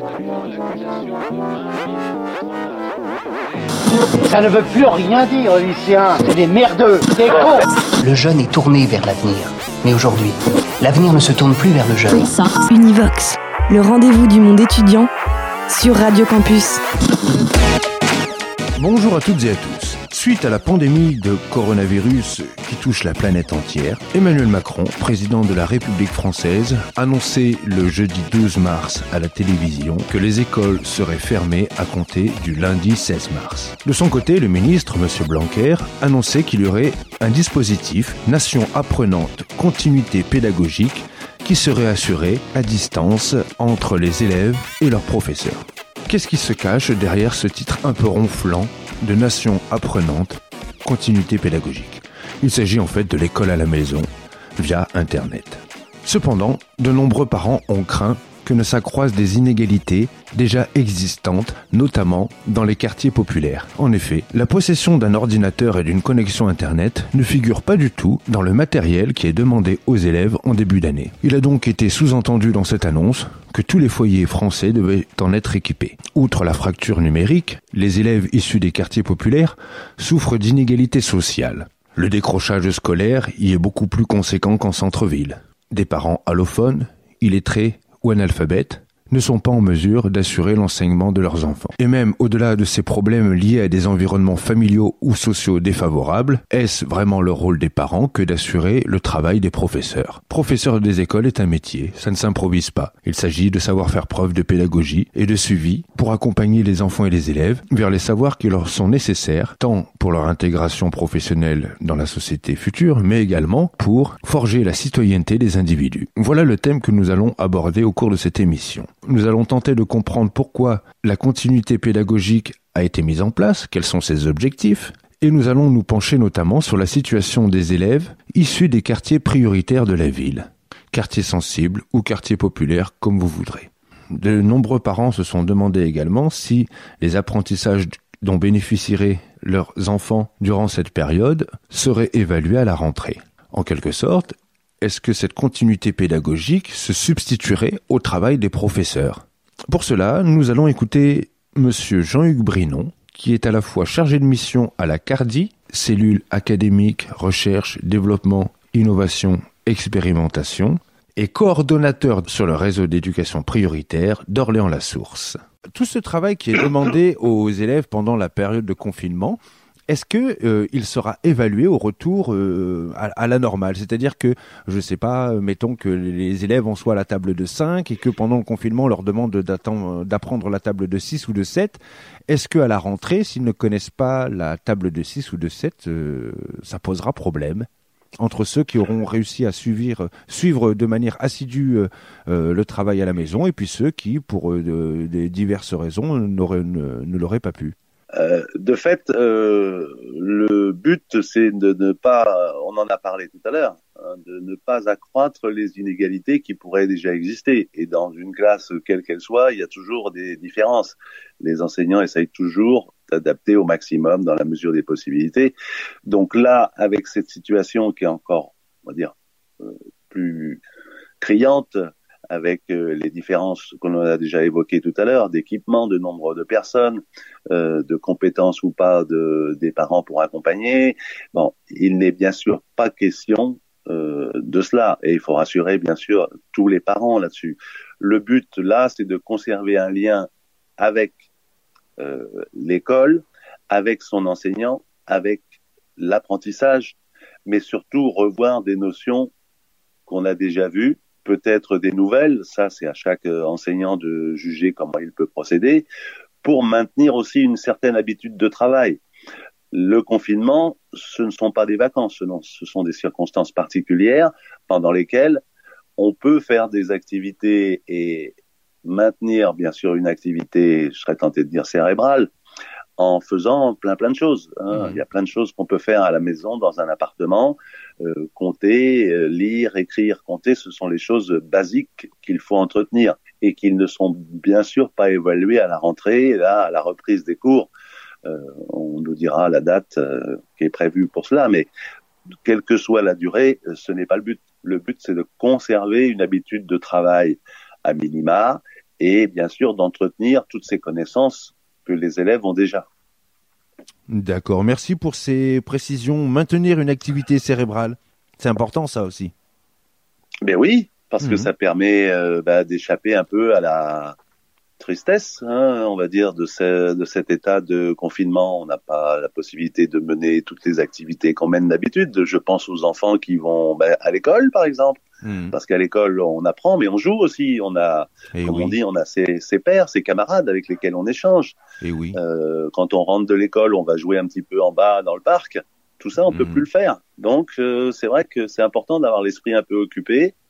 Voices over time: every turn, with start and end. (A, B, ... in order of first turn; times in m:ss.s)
0:04.3-0:07.6 A
0:08.0-0:12.3 B
0:12.1-0:15.1 C
0:15.7-0:16.8 C
0:18.8-3:17.8 D
3:18.1-3:35.6 E
3:36.1-3:40.6 E
3:41.2-4:01.2 E
4:02.0-4:05.4 E
4:06.0-4:09.3 E
4:10.1-4:15.9 E
4:16.4-4:19.0 E
4:19.7-4:25.4 E
4:26.0-4:32.3 E
4:33.0-4:47.7 E
4:34.7-4:35.0 D
4:48.2-4:51.7 E
4:52.4-5:02.9 E
5:04.1-5:09.3 D
5:10.4-5:14.2 E
5:11.2-5:11.5 D
5:14.8-5:31.6 E
5:25.2-5:25.6 D
5:28.3-5:28.8 D
5:31.8-5:32.2 D
5:32.1-5:40.4 E
5:36.3-5:36.6 D